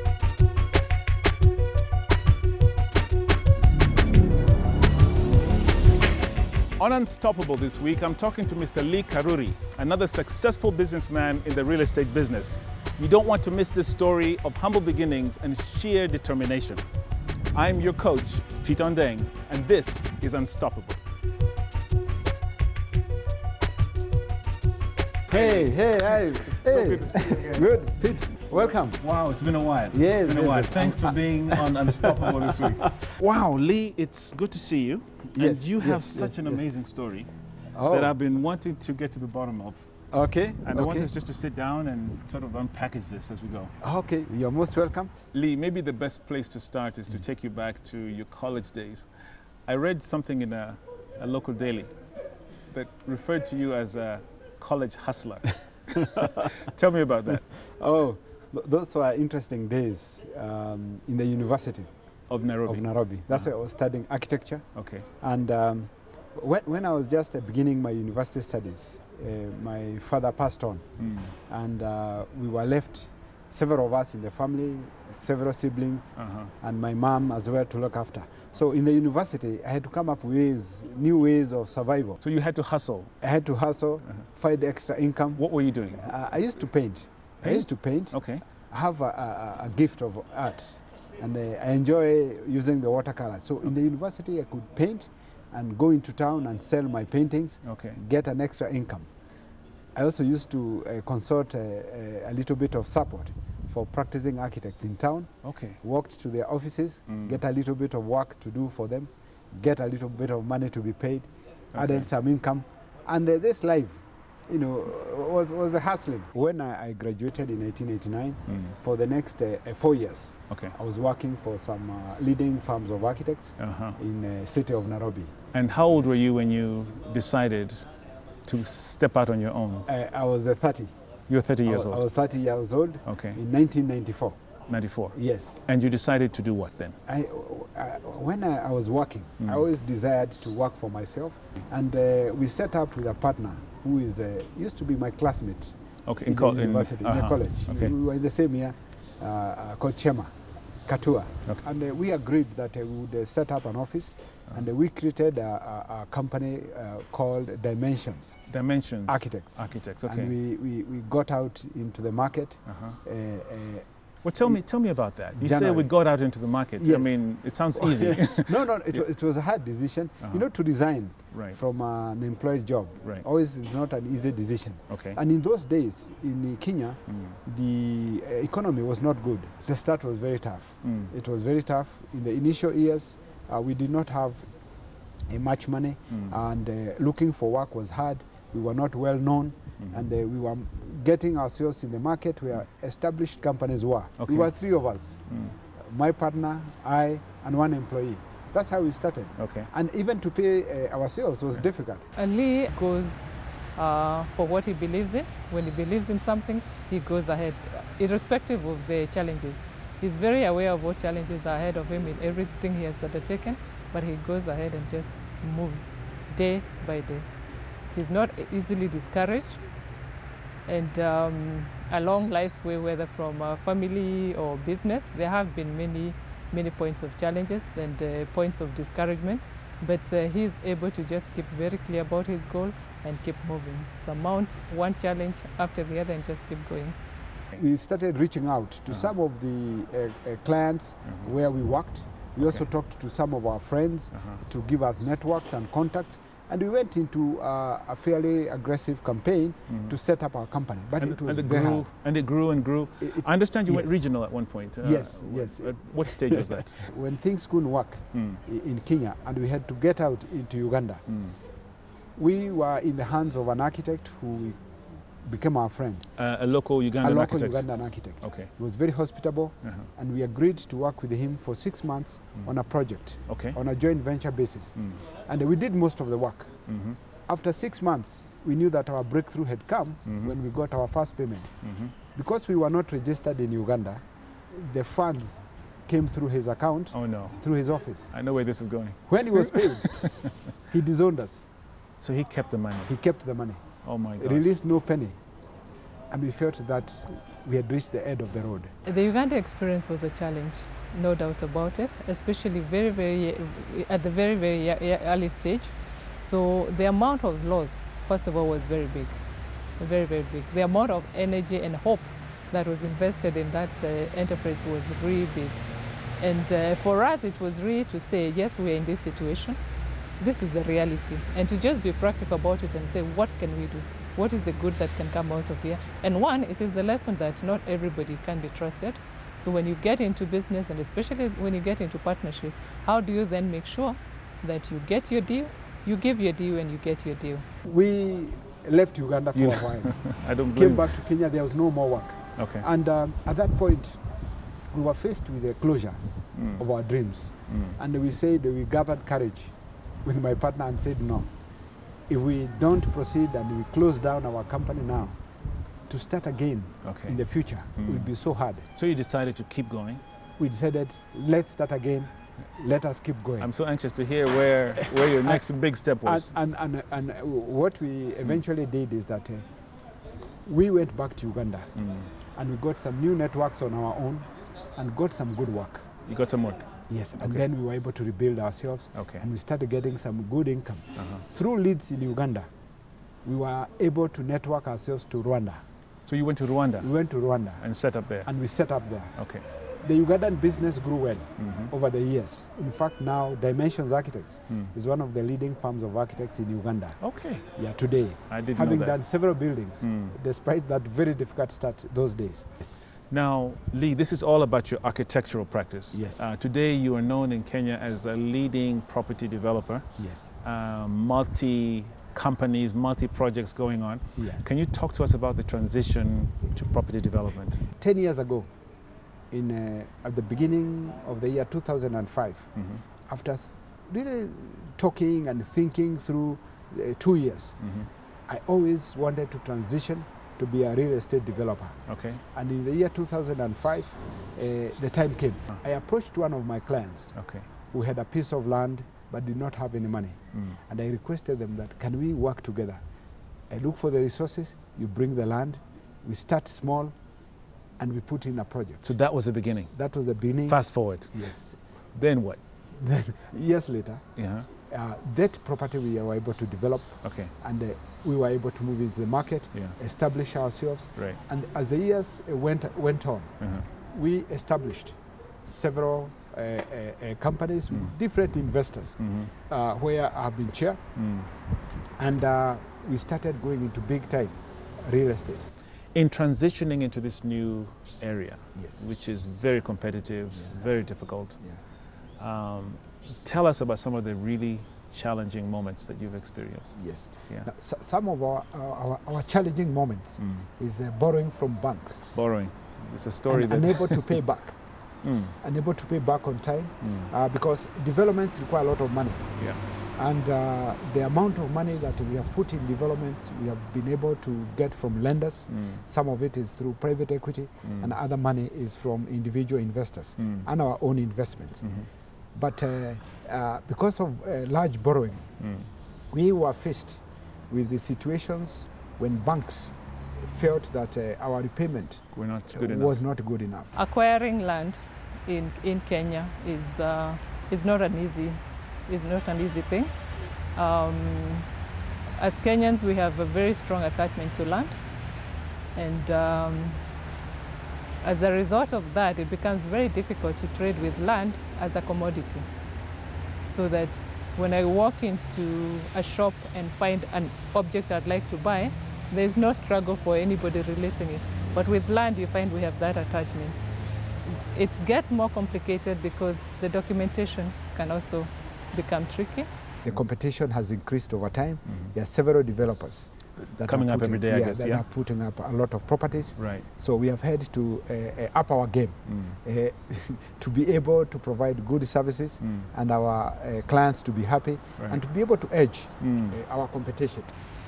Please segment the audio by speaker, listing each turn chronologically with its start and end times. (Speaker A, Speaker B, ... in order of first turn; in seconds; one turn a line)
Speaker A: 6.8-16.8
Speaker A: 17.5-21.0
Speaker B: 25.3-29.0
Speaker A: 25.3-27.6
Speaker A: 28.8-37.3
Speaker B: 29.9-32.9
Speaker B: 35.4-36.6
Speaker B: 37.7-38.1
Speaker A: 37.9-39.9
Speaker B: 40.1-41.1
Speaker A: 40.6-43.8
Speaker B: 43.8-45.3
Speaker A: 45.3-49.1
Speaker A: 49.7-51.9
Speaker A: 52.7-57.6
Speaker B: 57.5-61.9
Speaker A: 62.3-63.5
Speaker B: 62.7-64.7
Speaker A: 64.8-65.1
Speaker B: 65.2-82.2
Speaker A: 71.0-71.3
Speaker A: 76.2-76.5
Speaker A: 82.2-83.2
Speaker B: 83.2-99.1
Speaker A: 85.4-86.2
Speaker A: 87.4-88.4
Speaker A: 97.7-98.0
Speaker B: 100.0-125.3
Speaker A: 105.4-105.8
Speaker A: 107.1-107.4
Speaker A: 111.7-112.1
Speaker A: 118.5-118.7
Speaker A: 123.6-124.0
Speaker A: 125.5-127.9
Speaker A: 128.5-129.9
Speaker B: 129.9-130.9
Speaker A: 131.3-132.0
Speaker B: 131.7-134.4
Speaker A: 133.1-133.4
Speaker A: 134.7-137.0
Speaker B: 135.1-135.7
Speaker B: 137.1-150.3
Speaker A: 146.1-147.9
Speaker B: 150.9-158.4
Speaker A: 158.5-160.3
Speaker B: 159.1-163.9
Speaker A: 162.7-163.0
Speaker A: 164.2-169.0
Speaker B: 165.3-166.0
Speaker B: 166.8-184.5
Speaker A: 170.2-170.5
Speaker A: 171.3-171.6
Speaker A: 174.9-175.2
Speaker A: 177.1-177.4
Speaker A: 180.8-181.1
Speaker B: 185.3-195.3
Speaker A: 194.2-194.5
Speaker A: 195.3-195.6
Speaker B: 195.8-202.1
Speaker A: 199.4-199.7
Speaker C: 202.2-217.3
Speaker C: 217.9-219.6
Speaker C: 220.7-237.0
Speaker B: 237.6-251.9
Speaker A: 242.4-242.7
Speaker A: 244.1-244.4
Speaker A: 249.7-250.0
Speaker A: 251.0-256.9
Speaker B: 253.0-254.3
Speaker B: 254.8-261.1
Speaker A: 258.1-258.4
Speaker A: 261.1-261.4
Speaker B: 262.2-264.6
Speaker B: 265.2-266.1
Speaker A: 266.2-268.5
Speaker B: 267.0-276.6
Speaker A: 269.6-269.9
Speaker A: 273.3-273.6
Speaker A: 274.8-275.0
Speaker A: 276.7-277.0
Speaker B: 277.3-281.6
Speaker A: 280.1-280.3
Speaker A: 281.6-281.9
Speaker B: 282.1-288.1
Speaker A: 286.9-287.4
Speaker A: 288.1-290.1
Speaker B: 289.1-290.1
Speaker B: 290.7-291.5
Speaker A: 292.0-292.9
Speaker B: 292.9-295.2
Speaker A: 293.8-294.5
Speaker B: 296.1-298.7
Speaker C: 298.9-309.2
Speaker C: 309.8-315.6
Speaker C: 316.2-319.6
Speaker C: 320.2-337.4
Speaker B: 337.6-344.0
Speaker A: 339.4-341.0
Speaker A: 342.4-342.6
Speaker B: 344.7-346.0
Speaker A: 346.4-346.6
Speaker B: 346.5-349.5
Speaker A: 347.5-347.8
Speaker B: 350.0-351.3
Speaker B: 352.1-355.2
Speaker B: 355.9-358.7
Speaker A: 356.8-357.2
Speaker A: 357.8-358.1
Speaker A: 358.7-360.0
Speaker B: 360.4-363.5
Speaker A: 363.4-366.3
Speaker B: 364.8-365.4
Speaker B: 366.0-369.4
Speaker B: 370.5-371.7
Speaker A: 371.8-372.1
Speaker B: 372.3-375.9
Speaker A: 376.1-377.4
Speaker B: 376.9-382.5
Speaker A: 378.9-379.2
Speaker A: 381.0-381.2
Speaker B: 383.2-385.6
Speaker A: 386.1-386.9
Speaker B: 386.8-387.6
Speaker A: 387.6-388.3
Speaker B: 388.2-389.2
Speaker A: 389.2-389.4
Speaker B: 389.8-402.9
Speaker A: 391.4-391.7
Speaker A: 397.0-397.5
Speaker A: 398.3-400.1
Speaker A: 403.1-417.6
Speaker B: 405.9-406.3
Speaker B: 410.0-410.4
Speaker B: 414.2-414.5
Speaker B: 417.8-418.5
Speaker B: 419.3-427.6
Speaker A: 422.6-422.8
Speaker A: 427.6-427.9
Speaker B: 428.3-431.8
Speaker A: 431.9-432.2
Speaker B: 432.3-437.2
Speaker A: 437.2-437.5
Speaker B: 437.7-442.8
Speaker B: 443.5-446.9
Speaker B: 447.8-448.9
Speaker A: 448.8-452.4
Speaker B: 449.7-451.6
Speaker B: 452.7-454.0
Speaker A: 454.2-454.5
Speaker B: 454.7-470.8
Speaker A: 457.0-457.3
Speaker A: 463.4-463.7
Speaker A: 469.0-469.3
Speaker A: 471.0-471.3
Speaker B: 472.0-475.5
Speaker A: 475.9-481.4
Speaker B: 478.6-478.9
Speaker A: 482.2-487.5
Speaker B: 486.8-492.1
Speaker A: 490.2-490.5
Speaker A: 492.1-494.2
Speaker B: 493.3-494.6
Speaker A: 495.0-495.4
Speaker B: 495.4-511.7
Speaker A: 496.8-497.1
Speaker A: 499.4-499.6
Speaker A: 505.5-505.8
Speaker A: 507.7-507.9
Speaker A: 510.2-510.5
Speaker A: 511.6-511.9
Speaker B: 512.4-515.3
Speaker A: 515.4-515.7
Speaker B: 516.1-523.7
Speaker A: 522.1-523.0
Speaker C: 523.8-530.0
Speaker C: 530.5-531.5
Speaker C: 532.2-534.8
Speaker C: 535.7-536.9
Speaker C: 538.0-542.5
Speaker C: 543.4-553.7
Speaker C: 554.2-559.5
Speaker B: 559.8-577.3
Speaker A: 561.7-561.9
Speaker A: 563.4-564.9
Speaker A: 566.4-566.7
Speaker A: 569.1-569.4
Speaker A: 572.4-572.7
Speaker A: 576.0-576.4